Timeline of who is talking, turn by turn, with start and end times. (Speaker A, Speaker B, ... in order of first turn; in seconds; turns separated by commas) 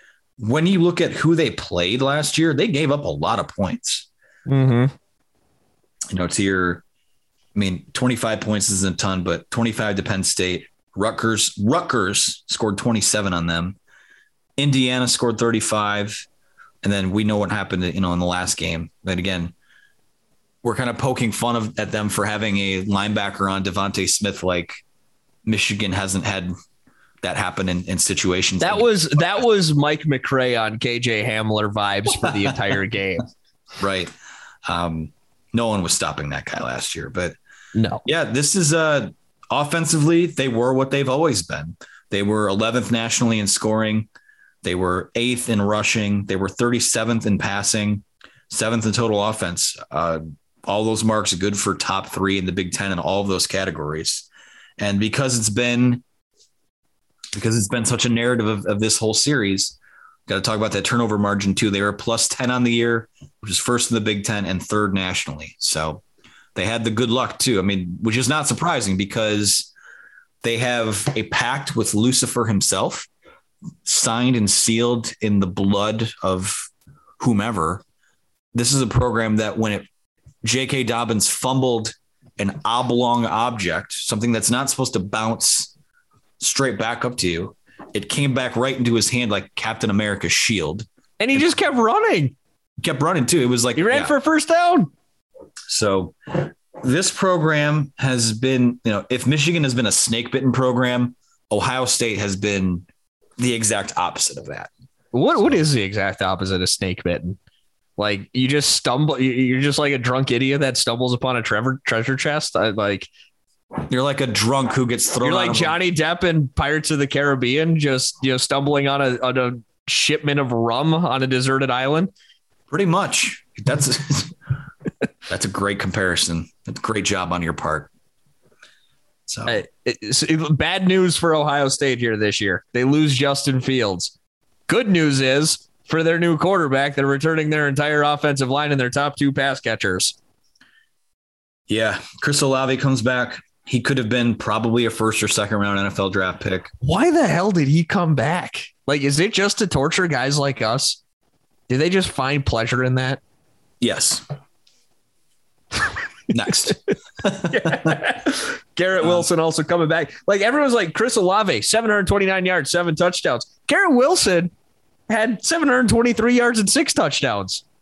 Speaker A: 0.4-4.1, Speaker B: 4.5-4.9, Speaker A: 6.1-6.8, Speaker A: 7.5-13.8, Speaker A: 14.6-16.2, Speaker A: 16.8-19.5, Speaker A: 20.6-24.7, Speaker A: 25.4-26.5, Speaker A: 27.2-29.4, Speaker B: 28.6-33.3, Speaker A: 32.2-32.6, Speaker A: 33.8-34.1, Speaker A: 34.7-37.4, Speaker B: 37.7-38.0, Speaker A: 38.0-44.1, Speaker A: 44.6-54.3, Speaker A: 54.8-56.0, Speaker A: 57.3-66.0, Speaker A: 66.5-69.7, Speaker A: 70.4-73.1, Speaker A: 73.8-77.8, Speaker A: 78.5-79.9, Speaker A: 80.4-85.7, Speaker A: 86.4-91.6, Speaker B: 91.2-92.3, Speaker A: 92.8-94.1, Speaker B: 93.8-94.9, Speaker A: 95.7-102.8, Speaker A: 103.4-104.7, Speaker B: 105.1-107.4, Speaker B: 108.0-113.1, Speaker A: 113.9-115.8, Speaker B: 115.2-122.1, Speaker A: 122.7-124.3, Speaker A: 125.3-127.9, Speaker A: 129.3-129.6, Speaker B: 129.5-134.1, Speaker B: 134.7-140.2, Speaker A: 141.7-146.7, Speaker B: 146.8-151.0, Speaker B: 151.7-153.2, Speaker A: 153.8-154.2, Speaker A: 156.3-158.0, Speaker B: 157.4-164.5, Speaker A: 159.0-159.3, Speaker B: 165.1-167.6